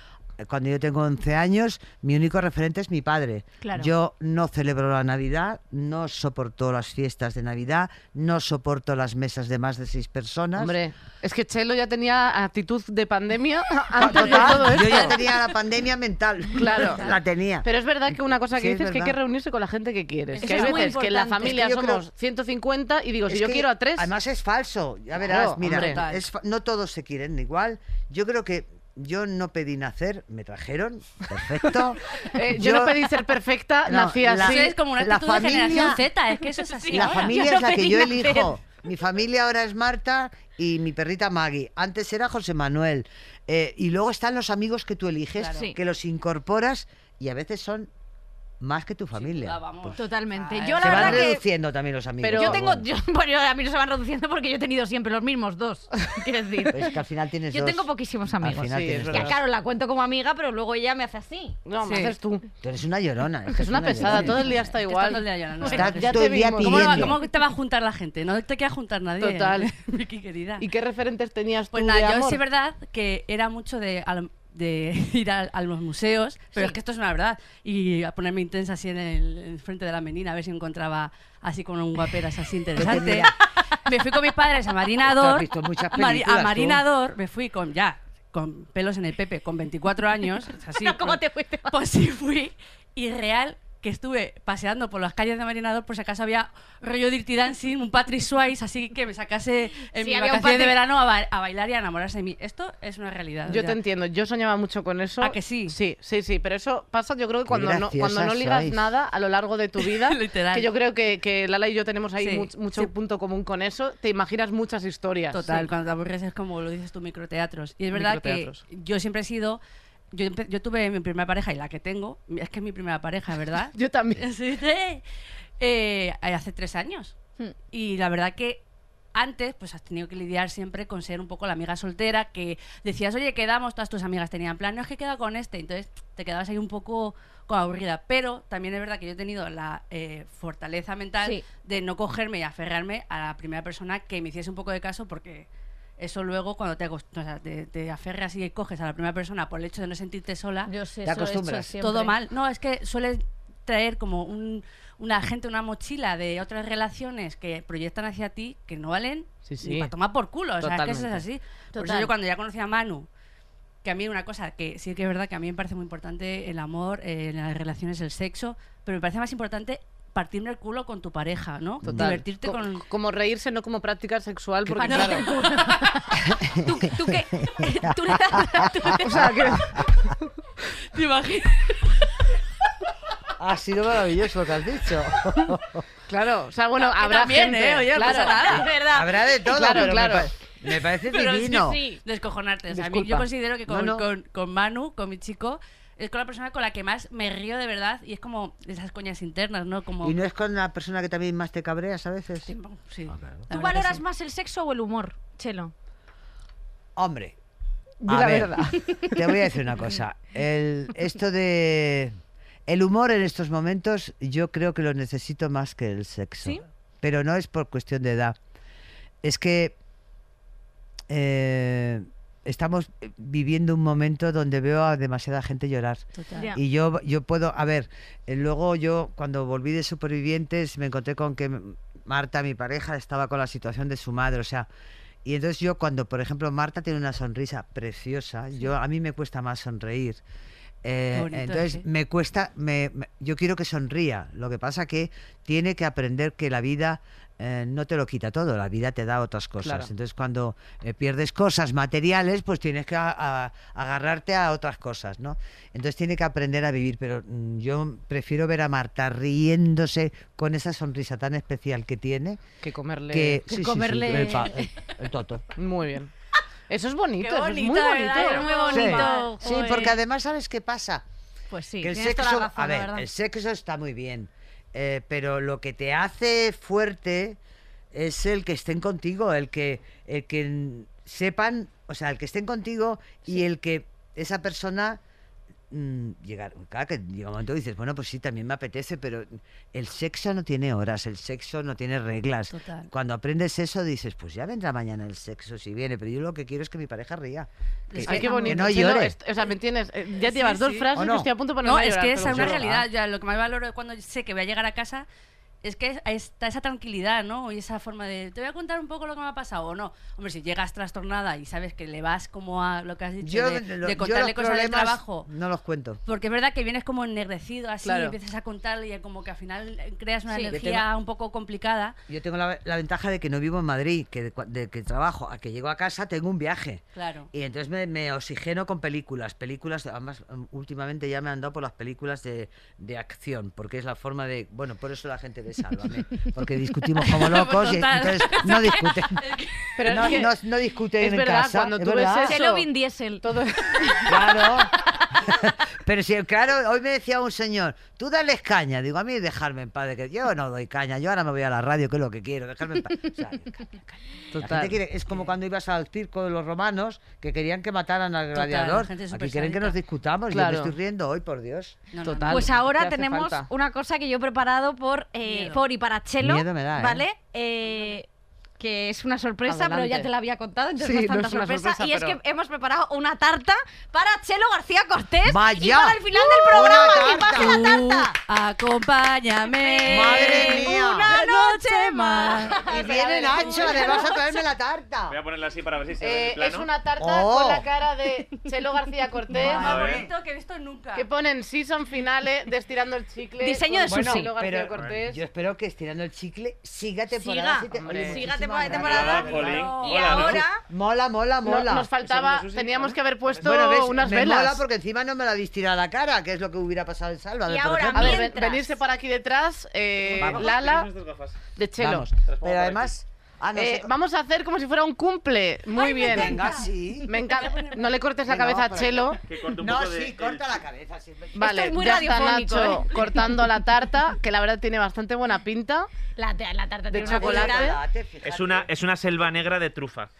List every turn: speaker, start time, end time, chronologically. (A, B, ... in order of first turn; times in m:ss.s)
0:00.4-0:10.8 A
0:03.6-0:03.9 B
0:10.6-0:15.2 C
0:14.0-0:17.7 A
0:14.1-0:15.1 D
0:16.6-0:17.0 C
0:16.8-0:17.2 D
0:17.6-0:24.1 C
0:18.6-0:19.2 A
0:20.3-0:21.0 D
0:20.4-0:21.6 B
0:21.4-0:22.0 A
0:23.3-0:33.1 A
0:25.2-0:26.0 C
0:25.6-0:26.2 D
0:32.3-0:34.7 C
0:33.9-0:36.0 A
0:34.4-0:37.4 D
0:36.4-0:38.6 B
0:36.9-0:47.9 A
0:45.4-0:45.6 D
0:48.6-0:49.7 A
0:49.2-0:51.3 D
0:50.0-0:51.4 B
0:50.8-0:52.9 A
0:52.2-0:52.6 C
0:52.4-0:56.8 B
0:56.7-0:59.4 A
0:57.5-1:01.6 B
0:58.6-0:59.4 C
1:01.7-1:02.5 C
1:01.8-1:02.1 D
1:02.6-1:04.5 A
1:03.6-1:07.2 C
1:04.0-1:10.6 D
1:05.6-1:07.2 A
1:09.2-1:09.7 C
1:10.6-1:12.4 C
1:11.7-1:23.3 D
1:22.8-1:23.3 A
1:23.8-1:43.8 D
1:25.0-1:26.8 A
1:30.8-1:31.8 B
1:40.0-1:40.8 B
1:43.5-1:55.7 C
1:45.2-1:45.8 D
1:47.5-1:48.9 A
1:49.8-1:50.7 D
1:52.2-1:52.9 D
1:55.3-1:59.6 D
1:57.9-1:58.6 C
2:00.1-2:05.0 D
2:03.8-2:04.2 C
2:05.6-2:07.1 D
2:07.7-2:08.6 D
2:09.1-2:25.5 D
2:26.0-2:30.7 D
2:30.7-2:32.2 B
2:31.0-2:31.8 A
2:31.8-2:43.1 D
2:39.5-2:39.9 C
2:40.6-2:41.2 C
2:41.7-2:42.1 B
2:43.8-2:52.8 D
2:51.8-2:55.3 C
2:51.8-2:52.1 A
2:54.7-2:55.2 A
2:54.8-2:55.7 D
2:54.8-2:59.3 B
2:56.1-2:59.9 A
2:59.0-3:00.3 C
3:00.9-3:01.8 D
3:03.4-3:05.8 A
3:06.1-3:08.6 C
3:06.8-3:08.8 D
3:08.0-3:09.3 B
3:08.8-3:11.8 A
3:09.5-3:10.3 C
3:11.1-3:20.2 D
3:11.5-3:12.0 B
3:12.7-3:13.3 C
3:13.7-3:14.0 A
3:20.0-3:22.5 A
3:22.5-3:24.0 D
3:23.1-3:23.5 A
3:23.5-3:25.7 B
3:27.0-3:27.4 A
3:28.0-3:29.1 C
3:28.1-3:32.2 A
3:32.7-3:38.4 A
3:39.2-3:39.8 A
3:41.1-3:54.7 A
3:46.2-3:46.5 D
3:55.2-4:00.2 A
4:00.8-4:22.4 A
4:01.1-4:01.8 D
4:09.6-4:09.9 C
4:22.6-4:23.4 C
4:23.1-4:25.4 A
4:23.5-4:24.7 B
4:25.6-4:26.1 C
4:26.7-4:28.5 C
4:27.2-4:29.8 D
4:28.1-4:30.0 B
4:28.7-4:31.0 A
4:31.5-4:33.1 B
4:31.8-4:37.4 A
4:37.9-4:45.0 A
4:45.7-4:59.2 A
4:52.5-4:52.9 D
4:57.9-4:58.7 D
4:58.0-5:02.6 C
5:00.2-5:00.9 D
5:01.0-5:01.3 A
5:01.6-5:05.1 D
5:02.2-5:02.8 A
5:05.6-5:15.3 D
5:13.2-5:16.0 A
5:16.1-5:22.0 D
5:17.8-5:18.2 C
5:20.3-5:20.6 B
5:20.5-5:20.9 A
5:22.1-5:39.2 A
5:27.0-5:27.3 D
5:37.0-5:40.1 D
5:39.8-5:40.3 C
5:39.9-5:42.4 A
5:41.0-5:42.6 C
5:42.3-5:43.2 B
5:43.2-5:44.2 C
5:44.0-6:01.8 A
5:54.3-5:54.8 C
5:58.3-5:59.8 D
6:00.3-6:00.7 C
6:01.9-6:02.5 D
6:02.0-6:03.5 C
6:02.3-6:08.1 B
6:05.2-6:05.6 D
6:06.2-6:07.0 A
6:08.6-6:18.2 B
6:09.5-6:10.1 C
6:10.8-6:12.2 C
6:15.3-6:17.6 A
6:17.4-6:22.6 D
6:19.5-6:24.4 B
6:19.9-6:21.1 A
6:22.6-6:25.2 A
6:22.7-6:24.0 C
6:25.1-6:26.7 E
6:26.0-6:29.9 C
6:27.0-6:27.7 A
6:29.3-6:31.1 D
6:29.5-6:30.1 E
6:31.0-6:35.2 C
6:33.4-6:34.3 B
6:33.9-6:41.9 A
6:37.1-6:40.6 B
6:37.8-6:38.8 C
6:38.7-6:40.5 E
6:39.3-6:40.1 D
6:41.4-6:44.6 C
6:42.0-6:43.5 E
6:43.4-6:48.3 A
6:47.5-6:48.7 B
6:47.9-6:50.9 C
6:50.0-6:51.4 E
6:50.2-6:50.5 A
6:51.6-6:52.1 C
6:51.8-6:53.9 A
6:52.2-6:53.0 E
6:53.6-6:56.5 C
6:55.7-6:56.6 B
6:56.1-6:57.1 A
6:57.1-6:59.2 C
6:57.3-6:58.0 D
6:58.2-7:01.5 A
6:59.3-7:00.5 E
7:01.4-7:05.9 C
7:01.4-7:03.3 B
7:06.2-7:07.7 B
7:06.9-7:07.8 C
7:07.0-7:08.7 A
7:08.2-7:10.1 E